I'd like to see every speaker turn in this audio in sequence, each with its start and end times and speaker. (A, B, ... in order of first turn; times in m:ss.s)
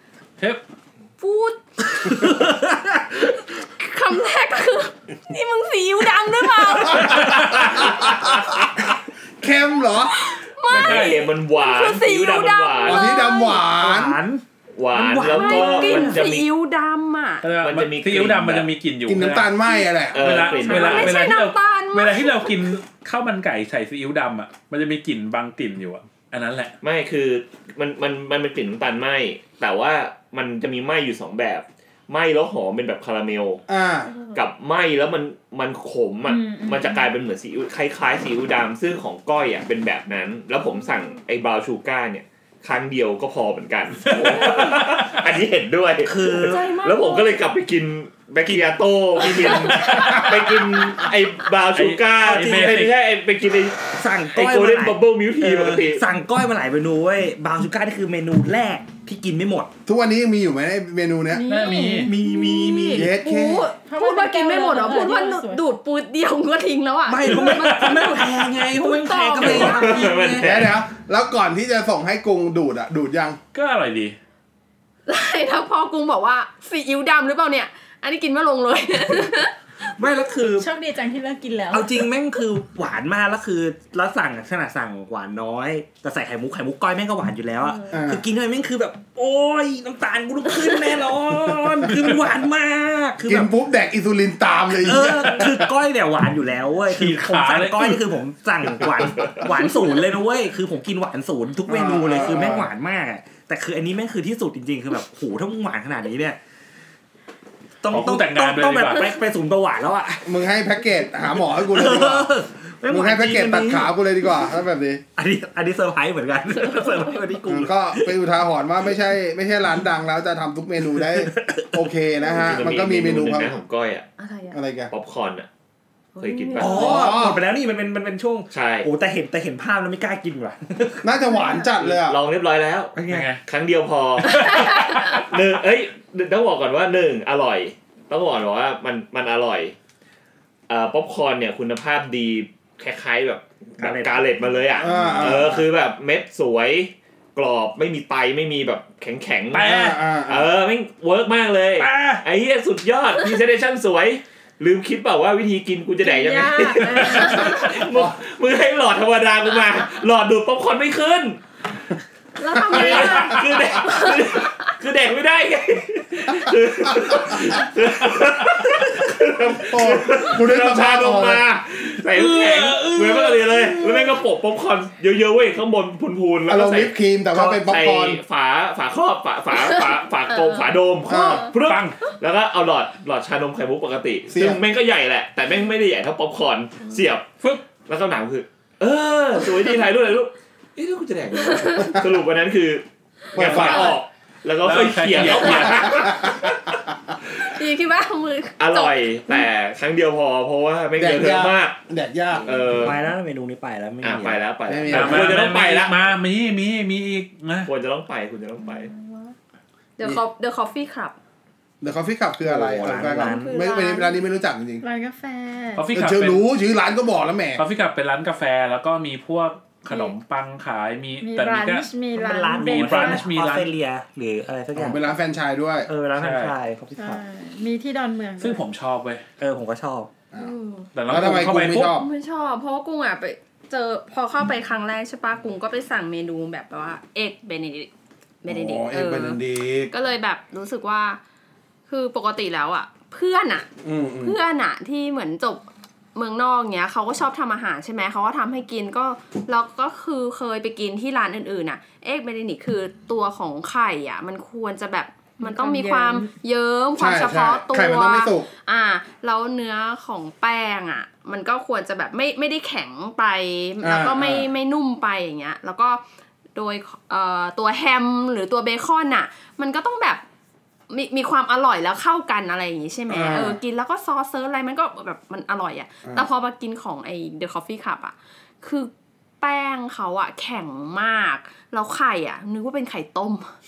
0:01.2-0:02.3 A
0:02.2-0:02.8 B
0:03.3-0:07.8 A
0:06.9-0:08.0 C
0:07.1-0:08.5 D
0:09.4-0:10.2 D
0:10.1-0:13.6 A
0:10.7-0:11.3 C
0:10.7-0:13.1 E
0:12.8-0:14.2 D
0:13.6-0:16.2 B
0:14.8-0:16.5 E
0:15.2-0:17.5 A
0:17.4-0:19.6 C
0:17.6-0:18.7 E
0:19.1-0:20.2 D
0:19.7-0:22.6 A
0:20.1-0:21.2 E
0:20.1-0:26.7 C
0:26.8-0:33.6 E
0:33.7-0:34.1 D
0:34.1-0:34.4 A
0:34.3-0:56.0 E
0:36.3-0:37.0 F
0:44.1-0:45.2 C
0:46.0-0:46.6 B
0:46.2-0:47.4 A
0:48.4-0:51.0 B
0:49.9-0:50.3 D
0:51.7-0:52.9 C
0:52.2-0:52.9 B
0:54.0-0:59.7 B
0:59.8-1:01.4 D
1:01.3-1:02.2 F
1:01.4-1:02.2 C
1:01.7-1:10.4 A
1:02.0-1:03.1 B
1:02.9-1:03.7 D
1:03.8-1:05.6 F
1:07.1-1:10.6 B
1:07.3-1:07.8 C
1:09.4-1:10.7 E
1:10.4-1:13.4 D
1:13.5-1:14.2 C
1:15.1-1:19.6 A
1:19.9-1:20.7 B
1:20.6-1:22.1 F
1:21.7-1:33.5 B
1:27.6-1:27.9 A
1:27.9-1:28.2 D
1:33.2-1:35.7 D
1:34.8-1:46.4 B
1:36.9-1:38.0 C
1:41.7-1:42.7 D
1:47.8-1:50.3 B
1:47.9-1:49.1 C
1:50.2-1:52.3 D
1:51.5-1:53.9 B
1:52.9-1:55.0 D
1:55.2-1:58.1 B
1:57.5-2:03.6 D
2:01.1-2:01.7 B
2:02.4-2:04.1 E
2:04.2-2:04.6 A
2:04.5-2:04.9 D
2:04.9-2:05.5 E
2:06.2-2:07.1 A
2:06.2-2:07.1 E
2:06.6-2:11.1 B
2:06.7-2:07.4 D
2:08.5-2:08.9 E
2:11.0-2:12.2 D
2:11.3-2:11.7 A
2:11.8-2:19.7 E
2:13.0-2:13.3 B
2:13.1-2:13.4 C
2:14.4-2:15.0 A
2:20.7-2:41.4 E
2:23.8-2:24.2 B
2:24.8-2:25.6 D
2:24.9-2:25.6 B
2:29.5-2:30.0 C
2:29.6-2:30.5 D
2:31.8-2:32.2 C
2:36.0-2:37.5 F
2:37.0-2:37.7 A
2:42.4-2:44.5 A
2:42.6-3:07.3 E
2:49.6-2:51.4 D
2:52.0-2:54.2 C
2:56.5-2:58.2 D
3:01.1-3:01.4 D
3:01.2-3:01.5 A
3:01.6-3:02.0 C
3:04.3-3:04.6 D
3:07.8-3:16.8 E
3:11.4-3:12.0 A
3:13.3-3:14.0 D
3:13.5-3:14.0 A
3:14.6-3:16.1 C
3:17.4-3:19.4 A
3:18.6-3:21.8 E
3:21.0-3:22.8 D
3:22.4-3:23.0 E
3:22.7-3:24.4 B
3:24.0-3:26.0 E
3:24.7-3:25.5 D
3:24.9-3:27.7 C
3:27.7-3:28.9 E
3:28.6-3:29.3 A
3:30.0-3:31.2 A
3:31.8-3:34.8 D
3:32.4-3:33.5 B
3:33.0-3:34.2 A
3:34.8-3:35.9 F
3:35.7-3:36.4 C
3:35.9-3:37.6 D
3:37.6-3:42.0 C
3:41.2-3:43.3 F
3:42.1-3:45.1 B
3:42.5-3:43.7 C
3:44.7-3:45.9 D
3:45.9-3:47.2 B
3:46.1-3:46.5 C
3:47.0-3:48.6 F
3:48.4-3:49.2 C
3:49.4-3:50.1 B
3:50.4-3:51.0 A
3:50.9-3:51.9 C
3:51.1-3:52.1 D
3:51.8-3:57.9 A
3:58.4-4:01.2 A
3:58.4-3:59.9 D
4:01.9-4:03.7 A
4:03.8-4:04.4 D
4:04.2-4:26.0 A
4:15.4-4:16.3 F
4:17.0-4:18.5 D
4:23.8-4:24.5 D
4:26.5-4:30.2 A
4:30.9-4:43.5 A
4:33.1-4:33.6 D